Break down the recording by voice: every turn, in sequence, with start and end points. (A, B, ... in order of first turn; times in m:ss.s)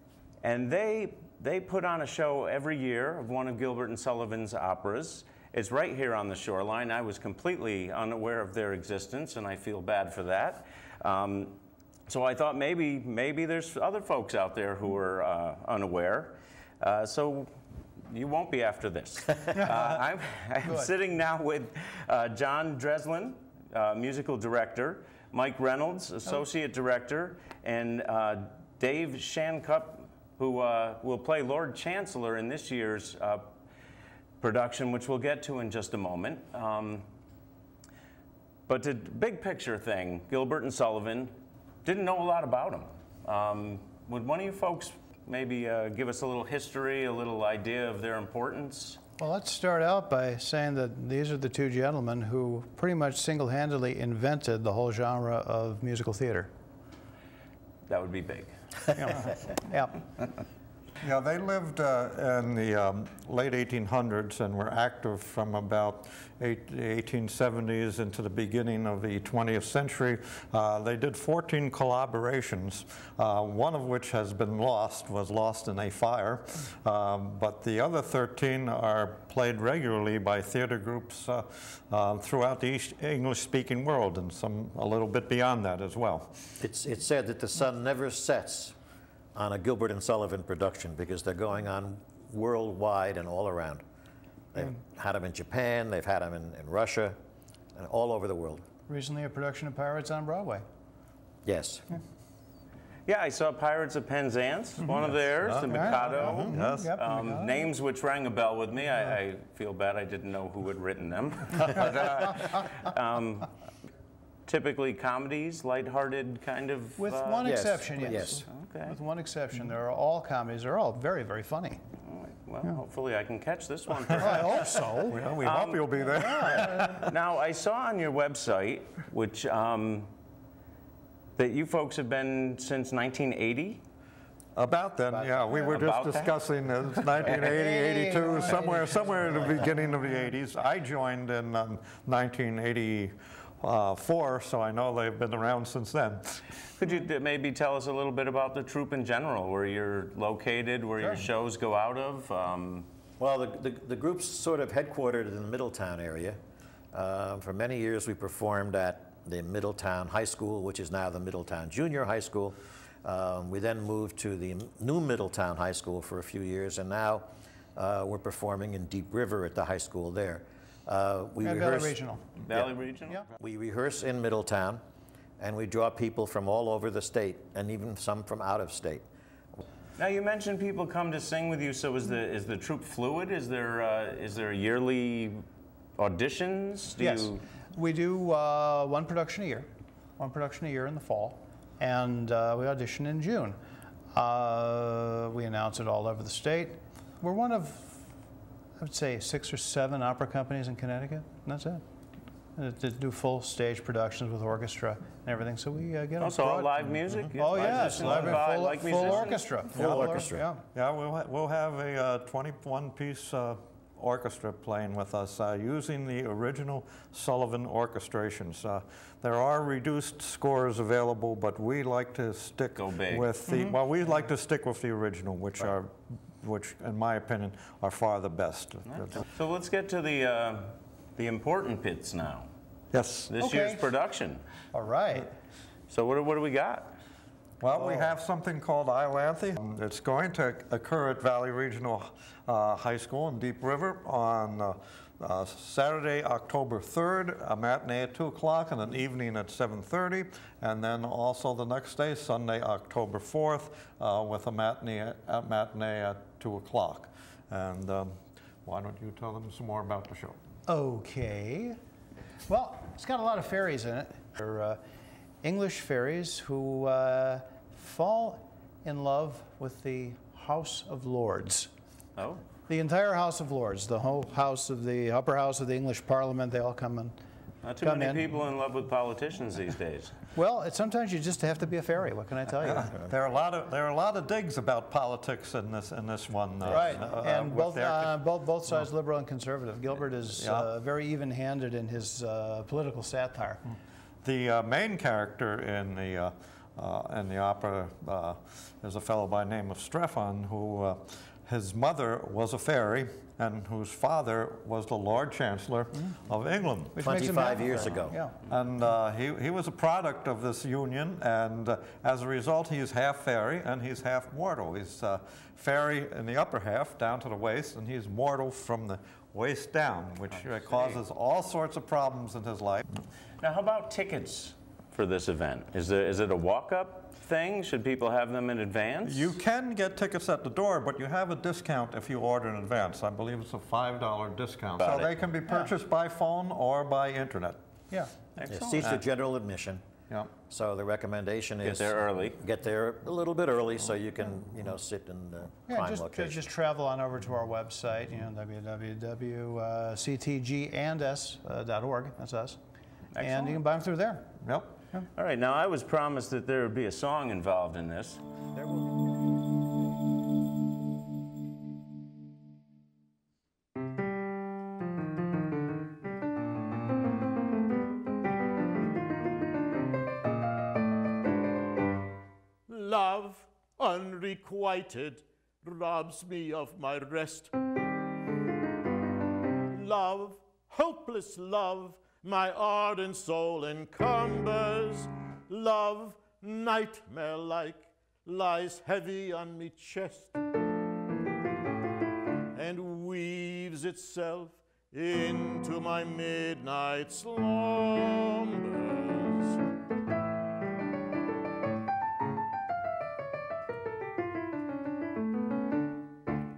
0:00.4-0:33.5 A
0:20.6-0:20.9 B
0:34.4-0:37.1 A
0:38.7-0:49.0 A
0:49.2-0:56.5 B
0:57.9-0:58.5 A
0:58.9-1:00.0 B
1:01.0-1:26.6 C
1:26.6-1:28.8 D
1:29.4-1:33.8 D
1:34.5-1:37.2 D
1:37.8-1:38.6 D
1:38.9-1:40.6 B
1:41.4-1:42.0 D
1:43.1-1:53.5 A
1:45.4-1:47.0 C
1:45.7-1:47.7 B
1:54.5-1:59.0 A
1:57.0-2:01.8 B
1:57.4-1:58.4 D
2:02.0-2:10.1 A
2:04.2-2:05.2 B
2:04.3-2:07.1 C
2:06.2-2:06.9 B
2:11.4-2:13.8 A
2:14.6-2:26.5 C
2:15.1-2:15.8 B
2:15.6-2:16.4 A
2:17.3-2:19.8 B
2:26.8-2:32.9 A
2:33.2-2:36.4 D
2:36.9-2:52.7 D
2:51.4-2:52.3 B
2:52.4-2:53.2 A
2:53.3-2:54.8 D
2:55.4-2:59.1 D
3:00.0-3:05.4 A
3:06.0-3:07.4 A
3:07.0-3:13.6 B
3:14.1-3:18.1 B
3:18.8-3:21.8 B
3:22.6-3:26.8 B
3:26.2-3:29.6 A
3:27.4-3:30.6 B
3:27.9-3:28.4 C
3:29.7-3:30.4 D
3:29.7-3:49.2 C
3:42.8-3:43.3 A
3:49.0-3:52.5 A
3:52.9-3:53.3 C
3:53.3-3:54.4 A
3:53.4-3:53.9 B
3:54.7-3:55.3 B
3:55.9-3:57.0 A
3:57.6-4:20.4 C
3:57.8-3:58.1 B
4:20.7-4:21.8 B
4:22.5-4:24.8 B
4:25.4-4:31.7 B
4:32.2-4:32.4 A
4:32.7-4:37.2 B
4:37.6-4:40.2 A
4:37.8-4:38.2 B
4:40.3-4:42.9 B
4:42.6-4:48.2 C
4:46.7-4:53.6 B
4:50.3-4:50.7 C
4:54.2-5:07.3 C
5:06.9-5:08.4 B
5:07.0-5:08.2 D
5:08.5-5:22.8 C
5:20.4-5:21.0 A
5:23.4-5:29.4 A
5:29.0-5:37.6 C
5:34.8-5:35.1 A
5:38.4-5:38.9 A
5:38.5-5:39.8 D
5:40.4-5:46.5 D
5:41.6-5:42.4 A
5:45.7-5:52.6 B
5:53.2-5:53.6 A
5:53.2-5:54.3 B
5:54.4-5:54.7 C
5:55.2-5:58.2 A
6:12.7-6:17.5 E
6:19.7-6:30.4 E
6:32.6-6:39.6 E